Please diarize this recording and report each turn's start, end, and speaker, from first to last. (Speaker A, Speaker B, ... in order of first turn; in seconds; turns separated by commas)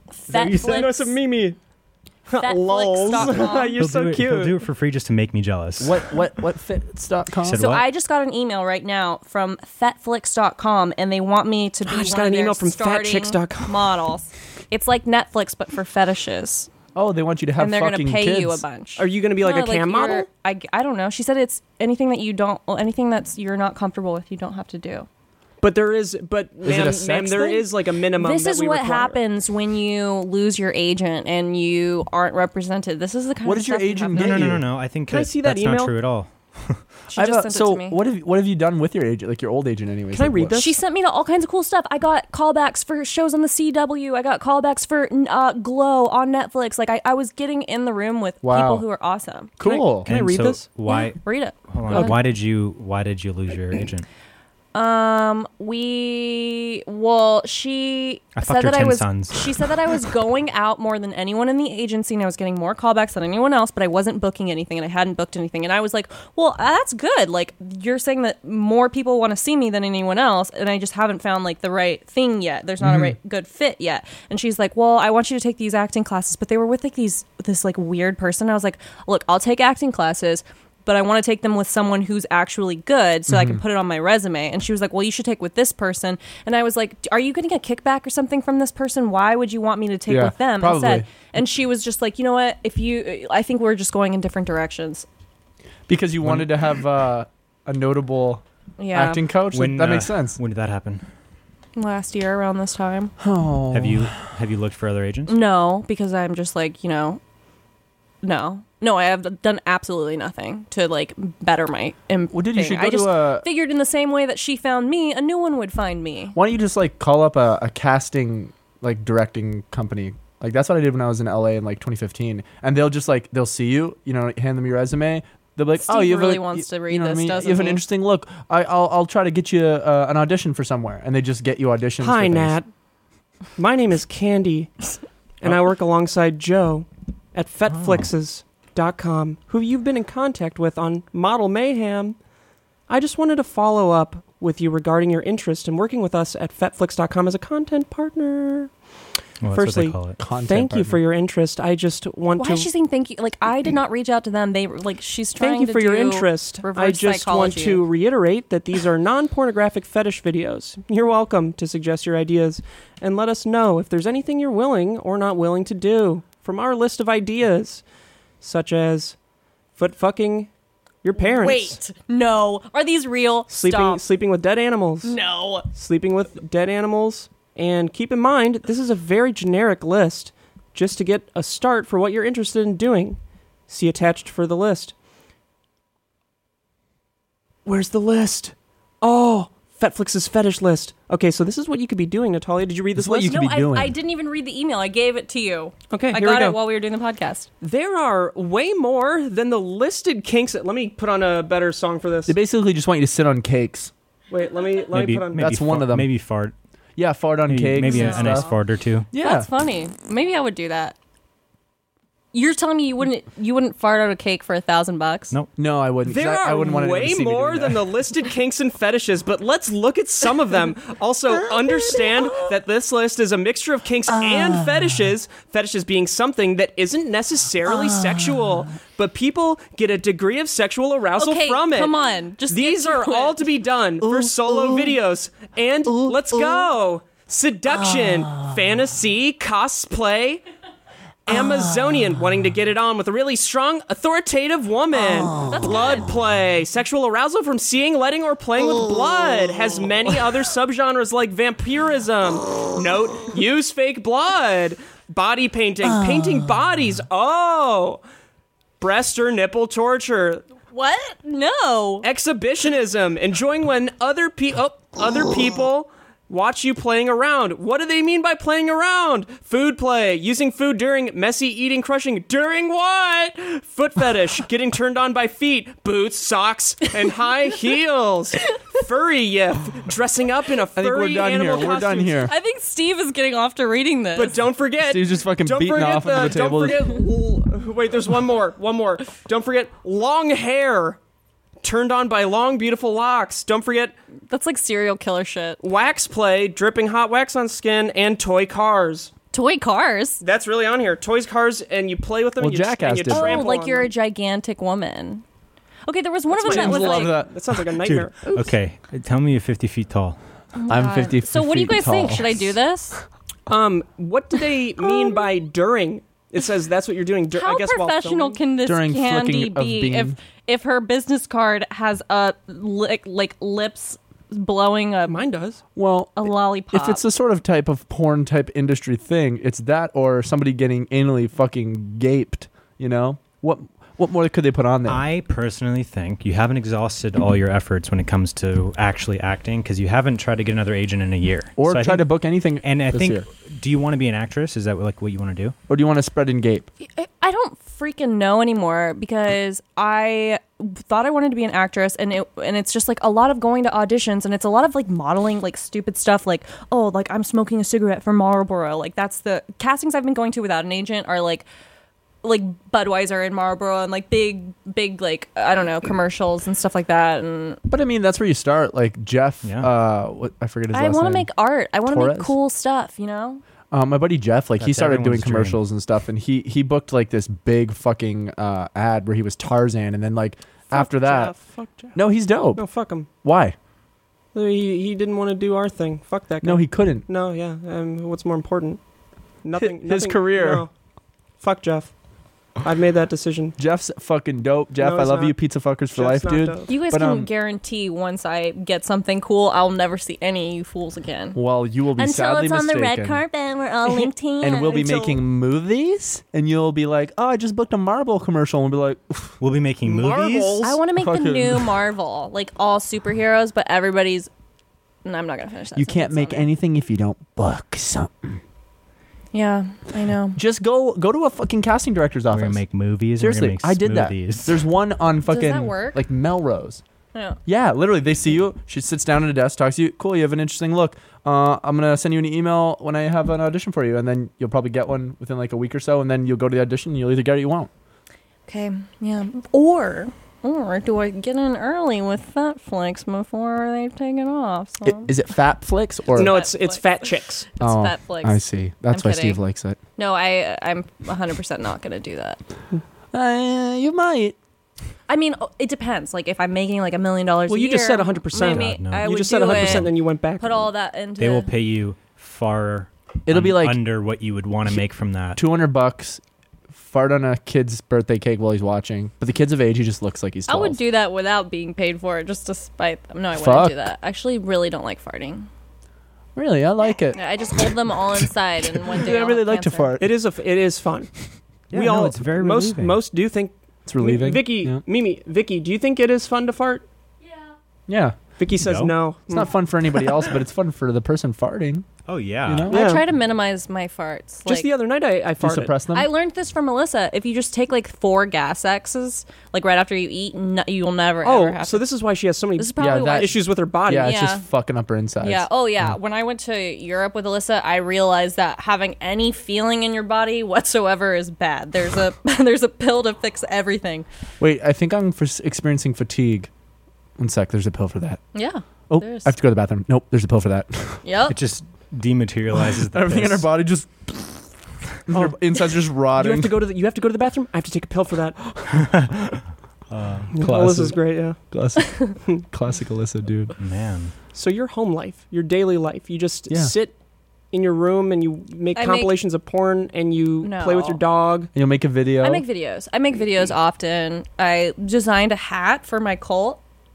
Speaker A: 0.2-1.1, Speaker B: 0.3-1.0, Speaker C: 0.4-1.6, Speaker C: 2.3-4.5, Speaker A: 2.4-3.8, Speaker B: 3.8-6.2, Speaker D: 5.8-7.7, Speaker B: 7.4-7.8, Speaker A: 7.5-16.7, Speaker C: 11.8-13.8, Speaker D: 16.9-18.6, Speaker A: 17.6-25.1, Speaker C: 19.0-20.3, Speaker C: 25.6-29.2, Speaker D: 26.6-27.7, Speaker A: 28.1-34.6, Speaker D: 33.4-34.6, Speaker B: 34.1-36.8, Speaker C: 35.1-35.9, Speaker A: 37.1-38.0, Speaker D: 37.1-40.6, Speaker C: 40.1-40.8, Speaker A: 40.5-49.5, Speaker D: 48.4-48.9, Speaker D: 49.6-50.1, Speaker C: 49.6-50.6, Speaker B: 50.0-54.0, Speaker A: 50.9-52.2, Speaker A: 54.7-95.1, Speaker B: 58.4-59.6, Speaker D: 72.8-73.1, Speaker D: 83.3-83.6, Speaker D: 90.1-91.1, Speaker D: 95.9-100.4, Speaker B: 96.2-96.5, Speaker A: 98.8-99.2, Speaker B: 99.5-101.0, Speaker A: 101.8-103.1, Speaker D: 103.2-104.1, Speaker B: 103.7-105.4, Speaker A: 105.3-107.2, Speaker A: 108.2-116.3, Speaker D: 112.3-113.5, Speaker D: 116.3-132.6, Speaker A: 125.8-127.8, Speaker C: 132.0-132.7, Speaker C: 133.6-134.7, Speaker C: 135.4-142.2, Speaker B: 137.8-138.1, Speaker C: 142.9-148.7, Speaker B: 149.4-150.2, Speaker C: 149.5-152.7, Speaker D: 150.2-151.0, Speaker A: 152.4-157.8, Speaker C: 155.4-167.8, Speaker C: 168.4-169.2, Speaker C: 169.8-170.5, Speaker C: 171.0-171.8, Speaker A: 171.2-174.0, Speaker C: 173.5-175.2, Speaker A: 175.0-175.7, Speaker C: 175.7-184.9, Speaker C: 187.6-193.4, Speaker D: 192.9-193.9, Speaker A: 193.2-197.5, Speaker C: 195.9-196.6, Speaker C: 197.6-202.3, Speaker D: 202.3-203.9, Speaker C: 204.3-205.6, Speaker B: 204.9-206.5, Speaker D: 205.4-206.1, Speaker D: 207.0-208.5, Speaker B: 207.5-209.1, Speaker A: 207.8-208.5, Speaker D: 209.1-209.5, Speaker A: 209.2-210.9, Speaker A: 212.3-215.3, Speaker D: 215.6-217.9, Speaker C: 216.0-231.9, Speaker D: 224.1-224.9, Speaker D: 227.7-228.5, Speaker A: 231.2-233.5, Speaker C: 232.5-240.4, Speaker D: 234.0-234.9, Speaker D: 235.8-236.6, Speaker D: 237.8-238.5, Speaker C: 241.2-258.0, Speaker A: 245.4-246.1, Speaker C: 258.8-260.4, Speaker A: 260.7-262.1, Speaker C: 262.0-282.2, Speaker D: 280.7-282.3, Speaker A: 282.2-284.4, Speaker C: 284.1-291.0, Speaker D: 284.8-286.9, Speaker C: 291.6-293.9, Speaker A: 294.3-295.6, Speaker C: 295.6-299.1, Speaker A: 299.3-300.2, Speaker C: 300.2-303.9, Speaker D: 302.4-303.5, Speaker A: 303.1-305.2, Speaker A: 305.9-307.2, Speaker C: 306.3-308.3, Speaker D: 306.4-307.3, Speaker B: 307.8-310.2, Speaker A: 310.5-313.0, Speaker D: 310.7-312.5, Speaker C: 313.5-318.4, Speaker A: 314.8-315.2, Speaker A: 317.3-325.2, Speaker D: 318.6-320.2, Speaker C: 325.1-325.6, Speaker D: 325.8-335.0, Speaker A: 326.2-327.0, Speaker B: 334.9-342.1, Speaker D: 341.6-343.2, Speaker B: 342.6-345.5, Speaker D: 345.7-346.7, Speaker A: 346.8-361.4, Speaker A: 362.2-367.6, Speaker D: 367.7-371.3, Speaker B: 369.4-369.7, Speaker A: 370.7-373.4, Speaker D: 371.8-372.4, Speaker D: 373.7-381.3, Speaker B: 374.6-375.6, Speaker C: 380.7-382.0, Speaker D: 381.9-382.6, Speaker C: 382.5-383.1, Speaker D: 383.2-383.5, Speaker C: 384.3-388.8, Speaker D: 386.4-387.0, Speaker C: 389.4-390.7, Speaker D: 389.6-390.7, Speaker C: 391.4-391.9, Speaker C: 392.6-393.6, Speaker D: 393.6-397.3, Speaker C: 394.8-395.4, Speaker C: 395.9-396.7, Speaker A: 396.7-401.4, Speaker D: 401.3-403.2, Speaker A: 401.9-404.9, Speaker D: 404.4-409.4, Speaker C: 404.6-405.2, Speaker B: 409.4-410.6, Speaker C: 409.8-410.8, Speaker A: 410.6-414.3, Speaker D: 410.9-411.8, Speaker A: 415.0-416.5, Speaker D: 415.8-418.4, Speaker A: 419.3-420.4, Speaker D: 420.4-422.6, Speaker B: 422.3-424.6, Speaker D: 423.2-426.8, Speaker A: 425.3-426.0, Speaker A: 427.1-427.4, Speaker D: 427.4-437.7, Speaker A: 438.5-445.1, Speaker D: 444.8-446.4, Speaker C: 446.1-447.5, Speaker A: 446.1-446.8, Speaker A: 447.6-448.4, Speaker D: 447.6-449.8, Speaker A: 448.9-449.4, Speaker A: 450.0-452.4, Speaker D: 453.1-454.4, Speaker A: 455.1-461.5, Speaker C: 457.5-460.7, Speaker B: 458.4-459.9, Speaker B: 461.2-465.4, Speaker D: 463.2-463.8, Speaker D: 465.4-466.2, Speaker D: 466.7-470.8, Speaker A: 470.5-475.5, Speaker D: 473.3-473.9, Speaker D: 476.4-477.7, Speaker A: 477.1-479.9, Speaker D: 478.7-480.1, Speaker C: 480.0-481.1, Speaker B: 481.7-483.0, Speaker C: 481.7-486.8, Speaker D: 483.9-484.8, Speaker D: 487.9-488.2, Speaker C: 488.4-489.5, Speaker B: 488.6-488.9, Speaker D: 489.3-491.9, Speaker B: 492.1-492.7, Speaker D: 492.4-492.8, Speaker A: 492.7-494.7, Speaker C: 492.7-493.0, Speaker C: 494.4-495.7, Speaker D: 495.4-496.1, Speaker A: 495.9-501.9, Speaker C: 501.2-504.2, Speaker A: 502.6-504.4, Speaker D: 502.8-505.5, Speaker A: 505.2-514.1, Speaker D: 514.4-516.5, Speaker D: 517.2-518.2, Speaker A: 518.3-519.3, Speaker D: 518.9-521.0, Speaker A: 521.0-521.4, Speaker B: 521.3-523.5, Speaker D: 522.5-524.5, Speaker D: 525.1-526.6, Speaker C: 526.0-528.4, Speaker B: 528.7-529.4, Speaker B: 529.9-530.3, Speaker C: 530.3-531.4, Speaker D: 530.3-533.5, Speaker B: 533.6-534.1, Speaker C: 534.3-537.0, Speaker C: 537.5-541.5, Speaker A: 538.7-539.1, Speaker A: 540.4-541.0, Speaker D: 541.5-542.4, Speaker A: 542.2-546.6